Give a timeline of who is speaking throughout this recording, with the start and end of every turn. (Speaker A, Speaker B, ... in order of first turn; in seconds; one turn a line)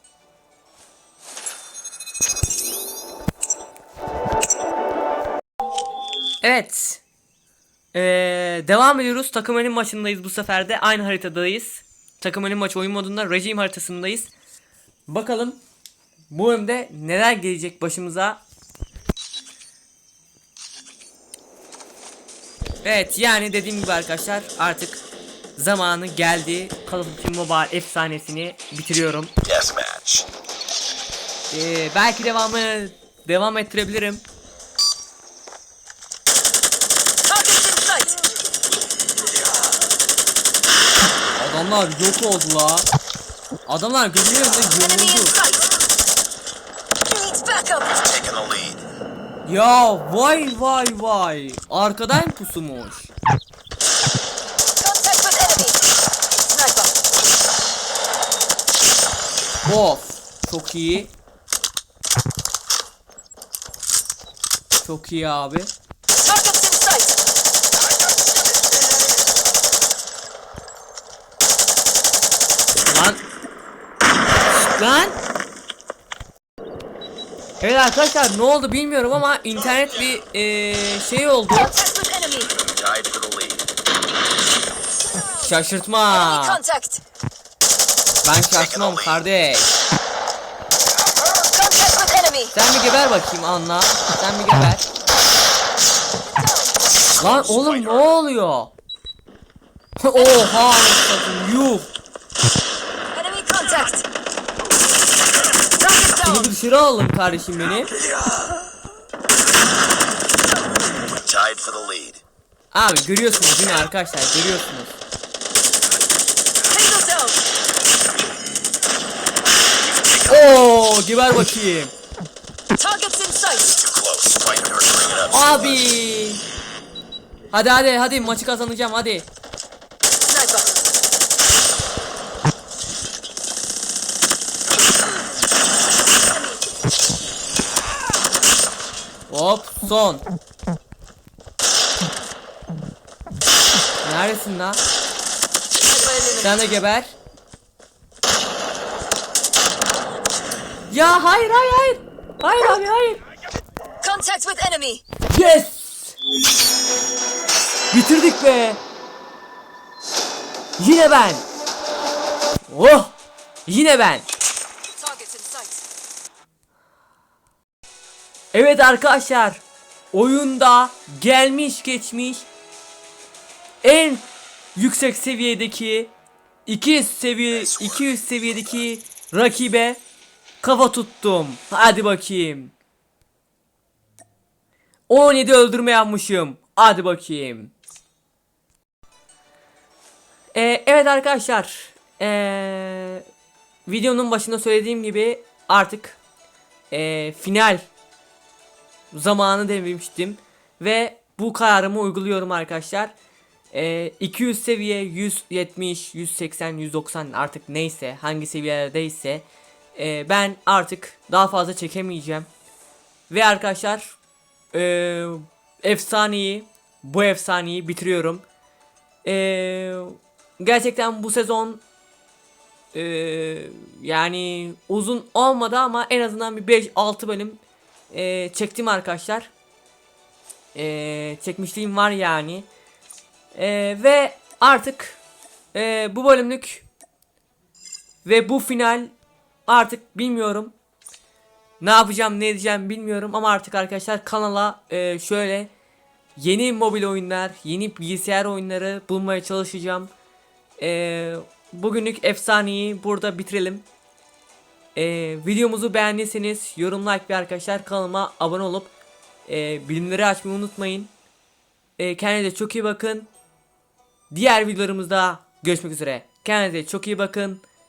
Speaker A: 6.4-7.0
Speaker A: 7.9-14.3
Speaker A: 15.1-15.6
Speaker A: 16.3-18.4
Speaker A: 22.8-25.0
Speaker A: 25.6-29.3
Speaker B: 29.4-30.2
Speaker A: 31.5-34.2
Speaker C: 37.2-38.2
Speaker A: 41.4-42.9
Speaker A: 43.7-45.4
Speaker C: 44.4-45.8
Speaker C: 47.0-48.0
Speaker B: 48.0-48.8
Speaker A: 49.5-53.1
Speaker C: 54.8-55.8
Speaker C: 56.5-56.9
Speaker A: 59.6-61.1
Speaker A: 64.8-65.7
Speaker C: 66.2-67.1
Speaker A: 72.9-73.2
Speaker A: 74.5-75.2
Speaker A: 77.6-81.7
Speaker C: 81.5-82.5
Speaker B: 82.5-83.6
Speaker A: 85.3-86.6
Speaker C: 86.1-87.0
Speaker A: 88.2-89.7
Speaker B: 88.6-89.2
Speaker C: 91.3-92.5
Speaker A: 92.5-94.8
Speaker C: 96.2-96.8
Speaker A: 97.2-98.7
Speaker B: 97.2-98.1
Speaker A: 100.0-101.9
Speaker C: 103.1-104.0
Speaker C: 105.8-106.5
Speaker A: 106.2-107.9
Speaker B: 111.2-112.2
Speaker A: 112.7-115.0
Speaker C: 116.7-117.4
Speaker B: 120.0-120.5
Speaker A: 120.2-121.9
Speaker C: 122.8-123.8
Speaker B: 123.8-125.8
Speaker A: 125.3-126.4
Speaker A: 127.5-129.3
Speaker C: 130.3-130.7
Speaker A: 139.3-140.2
Speaker A: 144.0-144.8
Speaker C: 145.9-146.6
Speaker A: 146.4-147.1
Speaker A: 150.9-153.2
Speaker C: 154.0-155.0
Speaker A: 155.3-156.2
Speaker A: 157.9-158.8
Speaker A: 160.8-161.4
Speaker A: 162.7-163.1
Speaker A: 163.7-164.3
Speaker C: 165.0-165.8
Speaker A: 168.5-172.4
Speaker A: 173.8-174.2
Speaker A: 174.8-176.1
Speaker A: 176.7-180.0
Speaker B: 177.7-178.0
Speaker A: 180.6-182.7
Speaker A: 185.1-187.7
Speaker A: 190.5-193.2
Speaker A: 193.8-196.2
Speaker A: 196.9-197.8
Speaker A: 199.1-203.1
Speaker A: 203.7-212.5
Speaker A: 213.3-214.2
Speaker A: 214.7-218.4
Speaker A: 219.2-221.8
Speaker A: 222.9-229.5
Speaker A: 230.7-232.7
Speaker A: 233.5-235.2
Speaker A: 235.7-236.8
Speaker A: 238.2-239.1
Speaker A: 239.7-240.7
Speaker A: 241.8-245.7
Speaker A: 246.3-250.1
Speaker A: 250.8-253.8
Speaker A: 254.9-258.9
Speaker A: 259.4-261.1
Speaker A: 262.0-263.3
Speaker A: 264.3-267.6